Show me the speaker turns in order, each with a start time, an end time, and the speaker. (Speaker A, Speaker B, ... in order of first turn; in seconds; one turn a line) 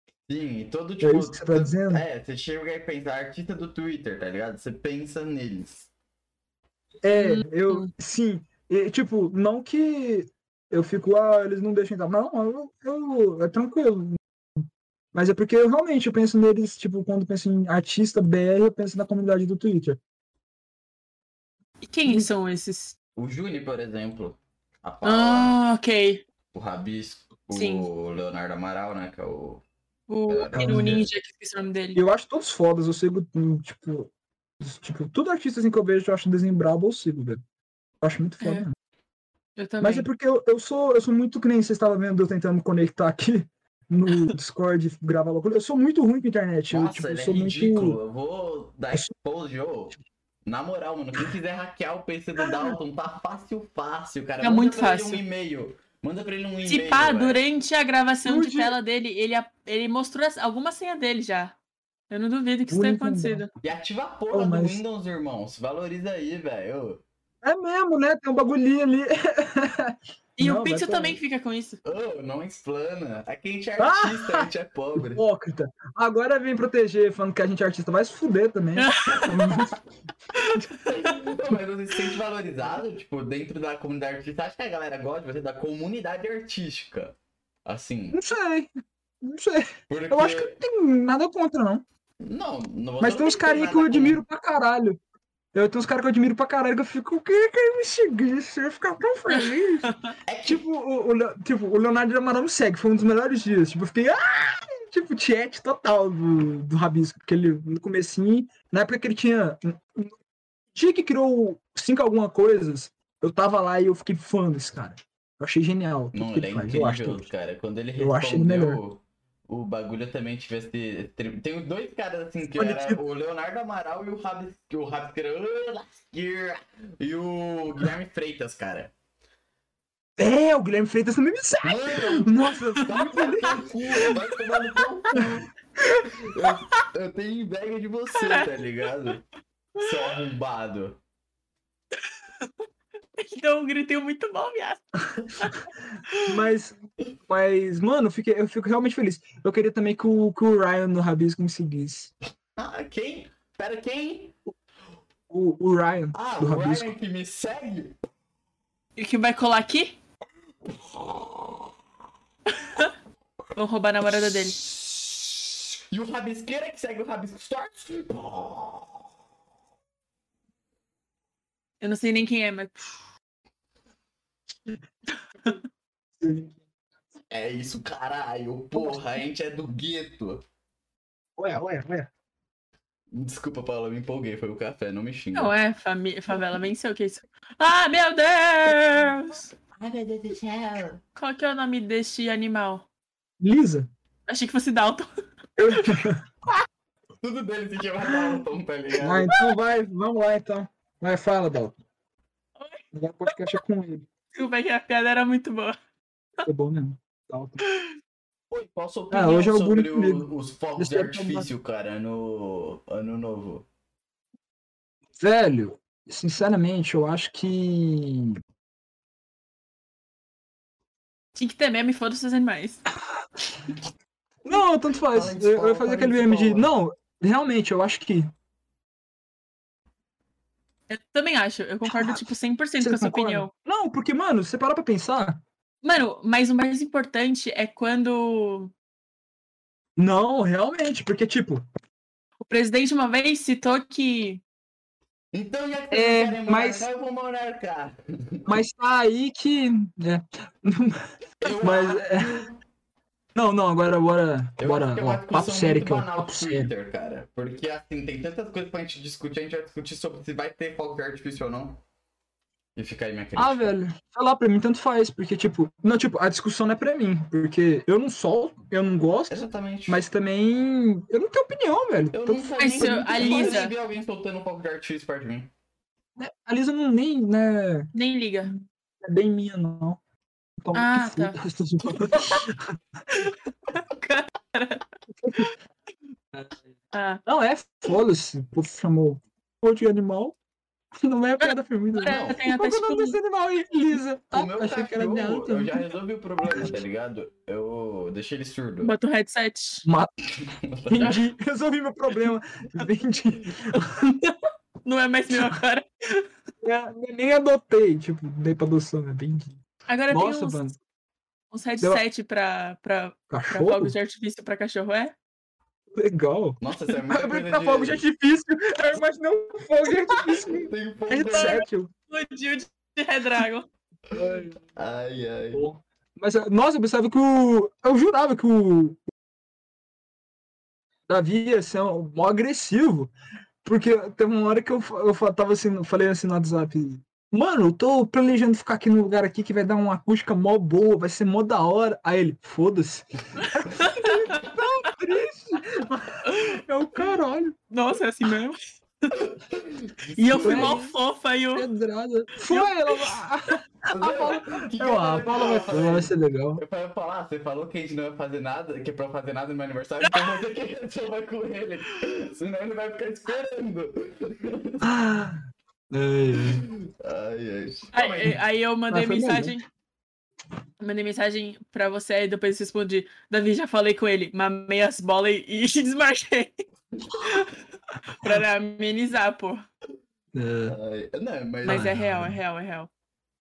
Speaker A: 0.3-5.9
Speaker B: 1.0-2.0
Speaker B: 7.0-14.2
Speaker C: 7.1-7.9
Speaker B: 15.1-20.0
Speaker C: 21.8-22.9
Speaker A: 23.1-25.6
Speaker C: 25.0-26.2
Speaker A: 26.5-29.6
Speaker C: 27.5-27.9
Speaker C: 30.1-32.0
Speaker A: 30.3-31.0
Speaker B: 30.5-31.0
Speaker B: 31.9-37.4
Speaker B: 38.0-38.7
Speaker C: 39.6-40.1
Speaker B: 39.8-48.0
Speaker A: 46.7-57.4
Speaker C: 54.4-55.2
Speaker C: 56.6-61.6
Speaker B: 58.2-58.8
Speaker C: 62.1-63.5
Speaker B: 62.7-63.4
Speaker A: 63.6-67.0
Speaker B: 64.3-64.8
Speaker B: 67.4-71.2
Speaker C: 70.4-71.8
Speaker A: 71.8-75.2
Speaker B: 73.8-79.8
Speaker C: 78.8-79.5
Speaker C: 80.3-81.1
Speaker A: 80.8-87.1
Speaker A: 87.7-88.2
Speaker B: 88.1-88.7
Speaker B: 89.2-91.8
Speaker A: 89.9-90.6
Speaker A: 92.2-94.2
Speaker B: 93.0-95.0
Speaker B: 95.5-99.9
Speaker C: 99.3-100.1
Speaker A: 100.2-100.6
Speaker B: 100.4-110.1
Speaker B: 110.7-117.3
Speaker A: 116.1-128.9
Speaker B: 118.0-118.8
Speaker B: 122.5-123.0
Speaker B: 130.2-133.7
Speaker A: 131.6-135.5
Speaker C: 132.8-134.2
Speaker A: 136.0-139.2
Speaker C: 138.2-138.4
Speaker A: 139.8-141.0
Speaker C: 143.2-146.3
Speaker B: 146.2-152.1
Speaker A: 152.6-154.3
Speaker B: 155.3-156.9
Speaker A: 156.1-157.9
Speaker C: 159.0-160.0
Speaker A: 160.7-161.6
Speaker C: 162.5-162.9
Speaker C: 163.6-164.6
Speaker A: 164.2-169.0
Speaker C: 171.8-172.9
Speaker B: 176.2-176.6
Speaker A: 177.3-180.4
Speaker B: 181.4-182.1
Speaker A: 183.1-185.5
Speaker C: 185.3-189.5
Speaker A: 189.7-191.0
Speaker C: 191.1-192.8
Speaker B: 193.4-193.9
Speaker C: 194.3-195.1
Speaker B: 195.6-196.2
Speaker C: 195.7-196.1
Speaker A: 197.2-199.3
Speaker B: 199.0-201.8
Speaker C: 202.6-203.6
Speaker B: 202.9-204.1
Speaker C: 204.3-205.8
Speaker B: 206.4-207.6
Speaker C: 207.6-207.9
Speaker A: 208.5-213.6
Speaker B: 209.1-211.5
Speaker B: 215.2-218.4
Speaker C: 221.3-222.8
Speaker B: 224.4-228.3
Speaker A: 225.1-226.7
Speaker C: 230.9-233.5
Speaker B: 231.8-232.2
Speaker B: 232.8-235.4
Speaker C: 235.8-238.7
Speaker B: 240.0-241.6
Speaker C: 242.4-244.4
Speaker A: 245.3-248.5
Speaker B: 245.9-246.9
Speaker B: 248.4-252.4
Speaker A: 251.4-252.6
Speaker B: 253.3-256.7
Speaker A: 254.6-261.8
Speaker A: 262.8-263.7
Speaker B: 263.4-273.7
Speaker A: 269.3-270.0
Speaker A: 272.1-275.5
Speaker C: 272.6-273.7
Speaker B: 276.2-277.9
Speaker C: 277.9-278.5
Speaker B: 279.0-280.0
Speaker B: 280.6-283.3
Speaker C: 280.7-282.5
Speaker C: 283.2-285.5
Speaker B: 285.2-285.5
Speaker C: 286.9-287.2
Speaker B: 287.2-290.4
Speaker B: 291.0-296.8
Speaker C: 291.4-293.2
Speaker A: 292.0-292.4
Speaker A: 294.3-298.9
Speaker C: 298.8-299.9
Speaker B: 299.8-300.1
Speaker A: 300.3-301.2
Speaker B: 300.9-304.3
Speaker C: 304.8-306.3
Speaker B: 306.6-309.6
Speaker C: 309.9-310.6
Speaker B: 310.1-310.8
Speaker C: 311.5-315.1
Speaker B: 313.3-313.9
Speaker B: 315.9-321.9
Speaker A: 316.6-318.0
Speaker A: 320.4-321.6
Speaker C: 321.3-323.7
Speaker B: 324.1-324.6
Speaker A: 324.8-325.6
Speaker B: 325.5-329.0
Speaker B: 331.1-333.1
Speaker B: 333.6-347.6
Speaker C: 343.4-344.5
Speaker C: 346.2-346.6
Speaker C: 347.7-348.6
Speaker A: 349.1-350.8
Speaker C: 350.1-351.7
Speaker B: 350.4-350.9
Speaker B: 351.5-356.6
Speaker C: 352.4-353.1
Speaker A: 353.9-364.9
Speaker B: 364.8-366.6
Speaker A: 366.3-368.4
Speaker C: 367.9-369.6
Speaker B: 368.9-369.6
Speaker C: 370.8-376.5
Speaker C: 377.1-377.6
Speaker C: 378.1-379.6
Speaker B: 380.3-380.8
Speaker A: 380.7-382.0
Speaker B: 381.6-382.4
Speaker C: 381.6-382.9